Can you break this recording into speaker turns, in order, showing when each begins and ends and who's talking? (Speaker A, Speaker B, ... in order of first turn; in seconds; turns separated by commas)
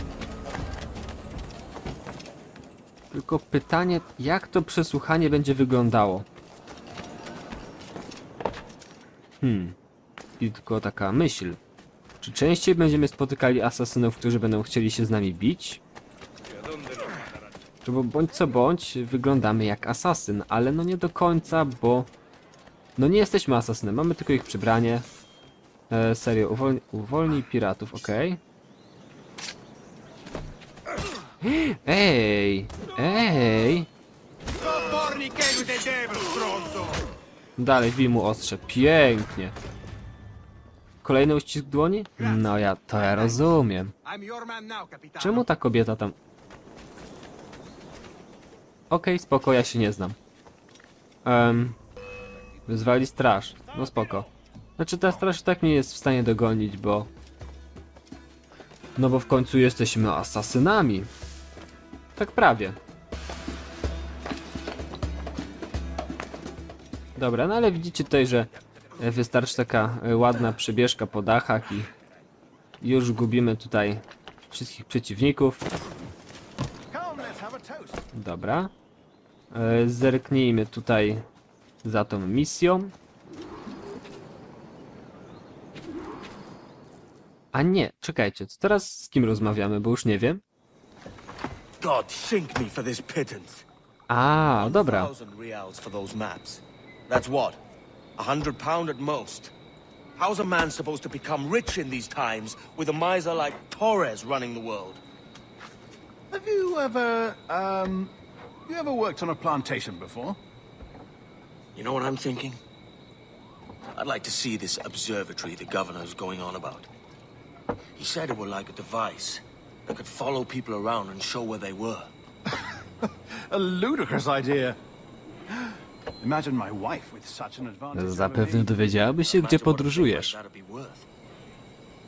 Speaker A: 3.1-6.2, Speaker A: 9.4-9.8, Speaker A: 10.4-11.6, Speaker A: 12.2-15.8, Speaker A: 17.8-22.1, Speaker A: 23.0-25.1, Speaker A: 25.9-28.4, Speaker A: 31.4-33.9, Speaker B: 34.5-37.0, Speaker A: 37.6-39.5, Speaker A: 41.0-43.9, Speaker B: 44.0-45.4, Speaker A: 45.2-46.1, Speaker A: 48.9-50.2, Speaker A: 51.2-51.8, Speaker A: 52.7-57.1, Speaker B: 53.7-54.0, Speaker A: 59.0-61.1, Speaker A: 62.1-62.8, Speaker A: 67.2-71.9, Speaker A: 72.8-75.6, Speaker B: 76.9-78.0, Speaker A: 78.1-78.7, Speaker A: 79.5-81.2, Speaker A: 81.8-82.9, Speaker A: 87.5-90.4, Speaker C: 91.8-93.6, Speaker A: 94.1-95.1, Speaker C: 94.5-97.6, Speaker C: 98.2-99.5, Speaker C: 100.2-105.0, Speaker B: 106.3-110.4, Speaker C: 111.7-112.6, Speaker C: 113.9-116.9, Speaker C: 118.0-122.1, Speaker B: 123.0-124.8, Speaker B: 125.5-128.7, Speaker A: 127.9-130.3, Speaker C: 129.2-131.1